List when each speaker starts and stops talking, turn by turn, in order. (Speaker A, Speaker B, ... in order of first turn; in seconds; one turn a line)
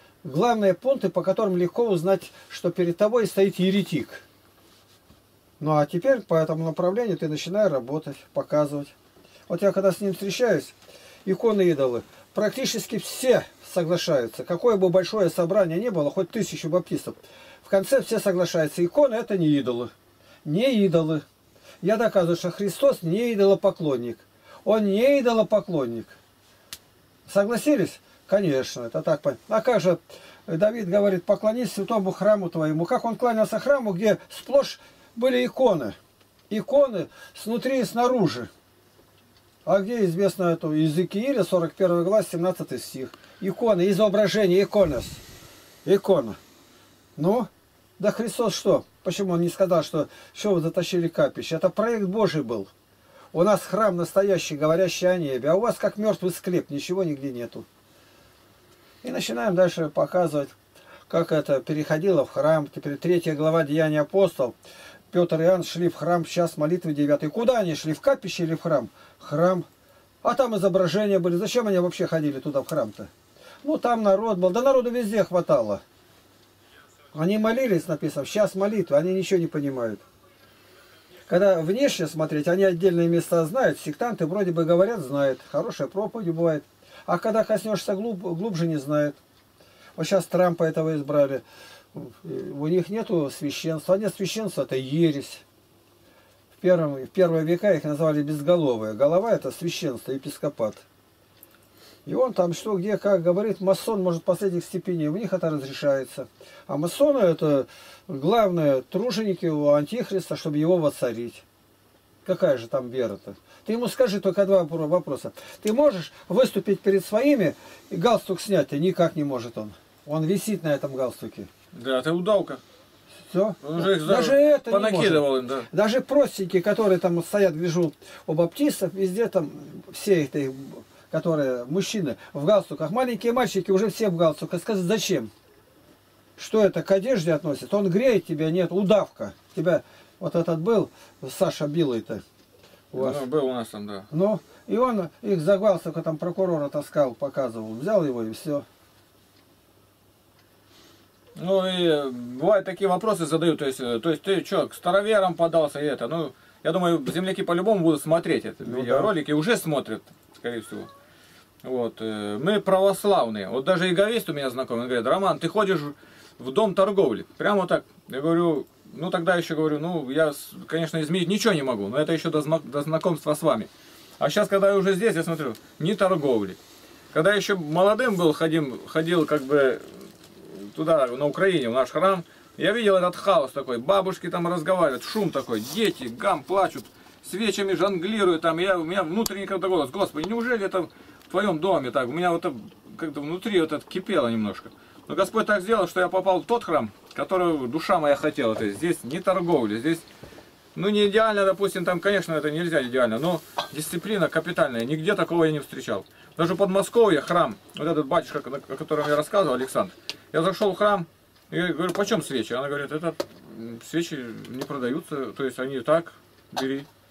Speaker A: 0.2-4.2
Speaker A: 5.6-8.9
Speaker A: 9.5-10.7
Speaker A: 11.2-19.9
Speaker A: 20.4-21.2
Speaker A: 21.8-26.1
Speaker A: 27.3-36.0
Speaker A: 36.5-38.5
Speaker A: 39.6-45.2
Speaker A: 45.9-46.4
Speaker A: 47.2-52.7
Speaker A: 53.3-57.7
Speaker A: 59.0-60.5
Speaker A: 61.1-64.5
Speaker A: 65.1-69.7
Speaker A: 70.2-73.1
Speaker A: 73.6-75.8
Speaker A: 77.1-80.0
Speaker A: 81.3-89.2
Speaker A: 90.0-91.4
Speaker A: 91.9-95.4
Speaker A: 96.6-100.8
Speaker A: 102.1-111.4
Speaker A: 112.2-121.5
Speaker B: 121.7-122.6
Speaker A: 123.3-135.3
Speaker B: 123.6-125.7
Speaker A: 136.4-142.2
Speaker A: 142.9-143.2
Speaker B: 143.0-144.1
Speaker A: 144.1-148.7
Speaker B: 151.4-160.9
Speaker A: 158.7-159.1
Speaker B: 161.6-176.6
Speaker B: 177.1-200.1
Speaker B: 200.8-216.9